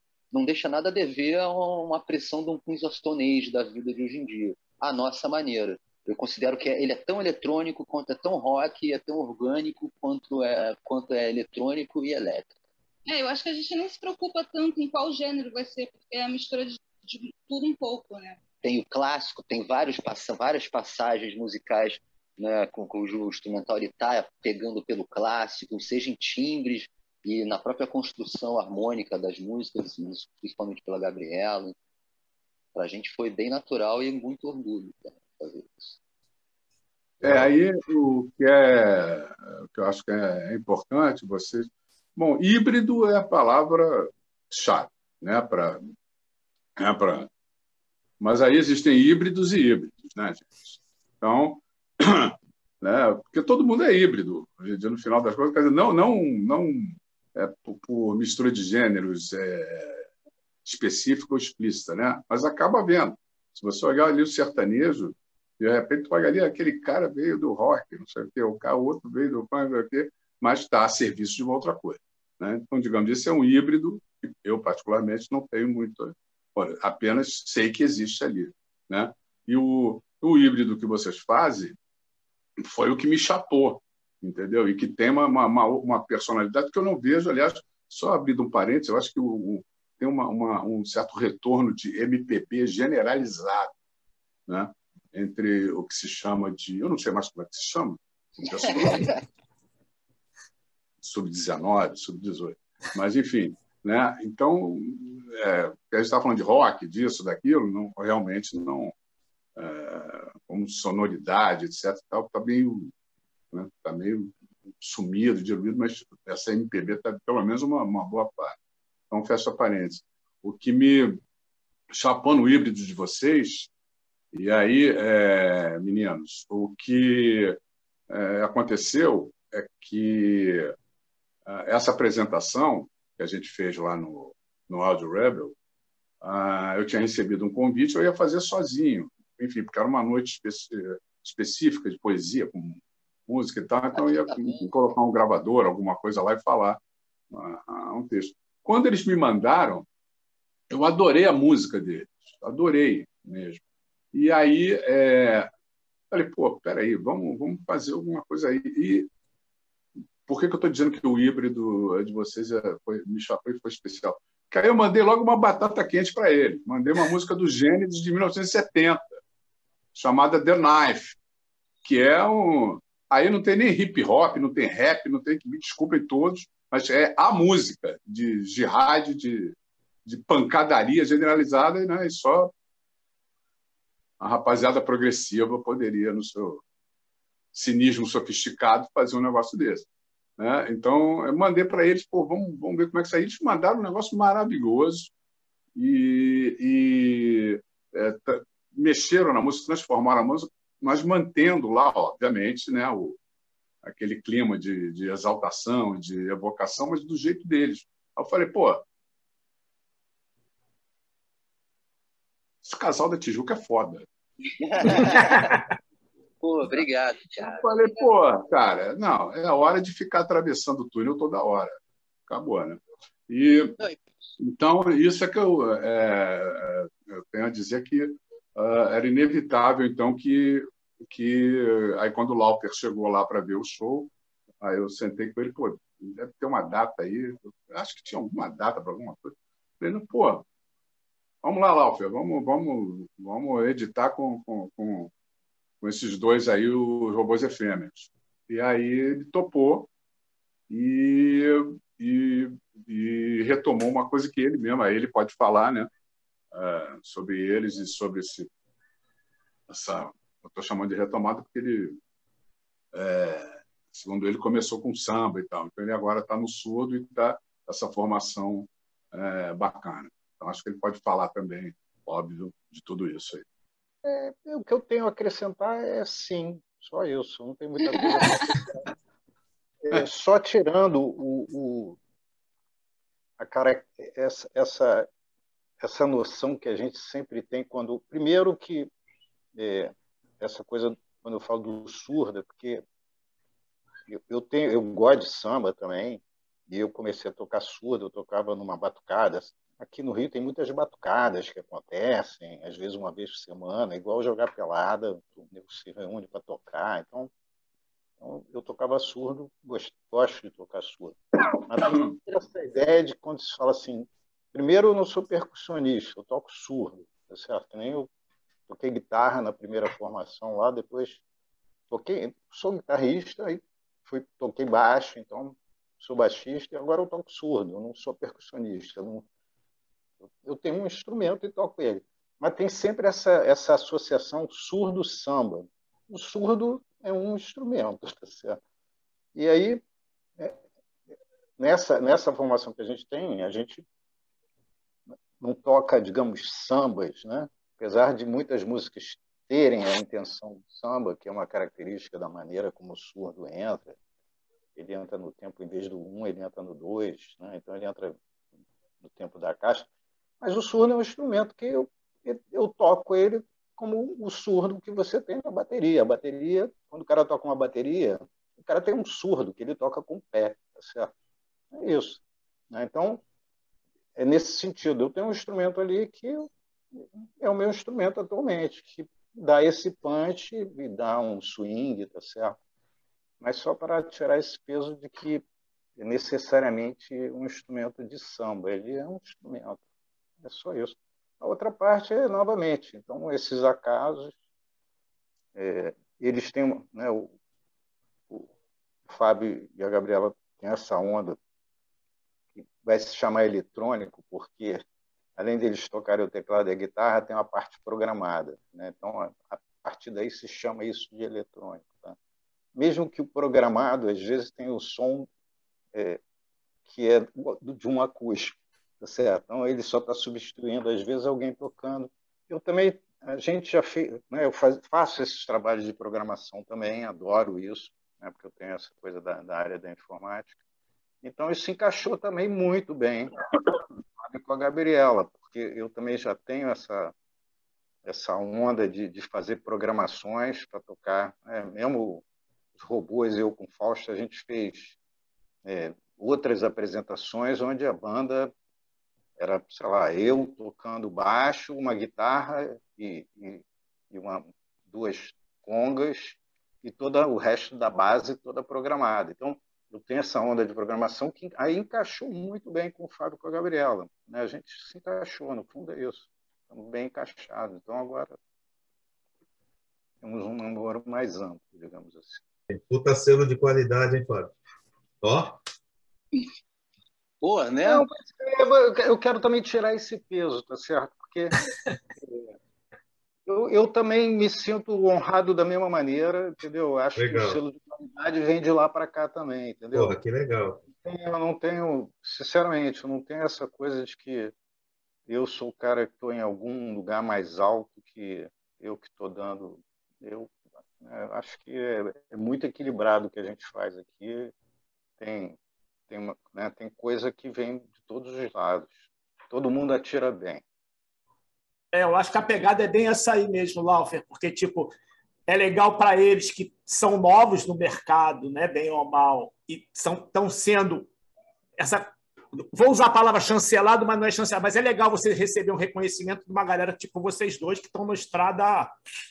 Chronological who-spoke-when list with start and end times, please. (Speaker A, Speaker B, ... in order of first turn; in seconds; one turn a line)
Speaker A: 0.3-12.5
Speaker B: 13.1-18.4
Speaker A: 18.6-31.8
Speaker A: 32.7-36.0
Speaker C: 37.2-45.9
Speaker C: 46.8-47.3
Speaker C: 48.2-60.1
Speaker C: 60.6-81.8
Speaker C: 82.6-93.7
Speaker C: 94.5-99.2
Speaker A: 98.7-99.2
Speaker C: 101.0-108.9
Speaker C: 109.6-112.9
Speaker C: 113.5-118.6
Speaker C: 119.1-121.2
Speaker C: 121.9-123.7
Speaker C: 124.3-127.6
Speaker C: 128.1-130.7
Speaker C: 131.5-135.6
Speaker C: 136.2-146.8
Speaker A: 143.9-144.7
Speaker C: 147.3-149.9
Speaker C: 150.7-153.6
Speaker C: 154.1-155.5
Speaker C: 156.1-159.1
Speaker C: 160.3-169.2
Speaker C: 169.9-171.2
Speaker C: 171.8-179.5
Speaker C: 180.1-182.5
Speaker C: 184.2-186.6
Speaker C: 187.5-189.9
Speaker C: 190.4-195.1
Speaker C: 195.8-203.2
Speaker C: 203.8-208.8
Speaker C: 212.6-214.1
Speaker A: 214.6-215.6
Speaker C: 214.8-215.2
Speaker D: 215.2-215.6
Speaker A: 216.4-217.7
Speaker C: 217.4-223.8
Speaker C: 224.4-240.4
Speaker C: 241.4-245.1
Speaker C: 245.8-249.9
Speaker C: 250.7-255.9
Speaker C: 256.5-258.5
Speaker C: 259.7-262.0
Speaker C: 262.9-273.4
Speaker E: 274.0-278.9
Speaker E: 279.8-282.0
Speaker E: 283.4-285.1
Speaker E: 285.8-288.9
Speaker E: 289.6-292.8
Speaker E: 294.1-307.3
Speaker E: 308.2-318.1
Speaker C: 311.9-312.1
Speaker E: 318.7-321.2
Speaker E: 321.9-329.3
Speaker E: 330.4-338.6
Speaker E: 339.4-339.8
Speaker E: 341.6-343.9
Speaker E: 345.4-354.0
Speaker E: 354.8-358.2
Speaker E: 359.0-359.9
Speaker E: 360.4-371.1
Speaker E: 371.7-373.2
Speaker E: 374.2-382.6
Speaker E: 383.4-385.4
Speaker E: 386.0-389.8
Speaker E: 390.4-394.4
Speaker E: 395.6-397.3
Speaker E: 399.1-401.4
Speaker E: 402.6-404.8
Speaker E: 405.4-412.2
Speaker E: 412.8-415.3
Speaker E: 415.9-416.2
Speaker E: 416.9-430.5
Speaker E: 431.2-433.4
Speaker E: 434.2-437.1
Speaker E: 438.0-442.2
Speaker E: 442.8-445.0
Speaker E: 445.6-448.5
Speaker E: 449.4-468.3
Speaker E: 470.2-472.4
Speaker F: 472.7-474.5
Speaker F: 475.2-475.6
Speaker A: 477.4-478.1
Speaker E: 477.8-481.6
Speaker E: 482.2-482.5
Speaker E: 483.5-490.2
Speaker F: 487.2-487.6
Speaker F: 489.9-490.9
Speaker E: 491.0-494.5
Speaker E: 495.3-504.5
Speaker E: 505.2-510.6
Speaker D: 511.9-515.0
Speaker D: 515.5-521.1
Speaker D: 521.8-528.9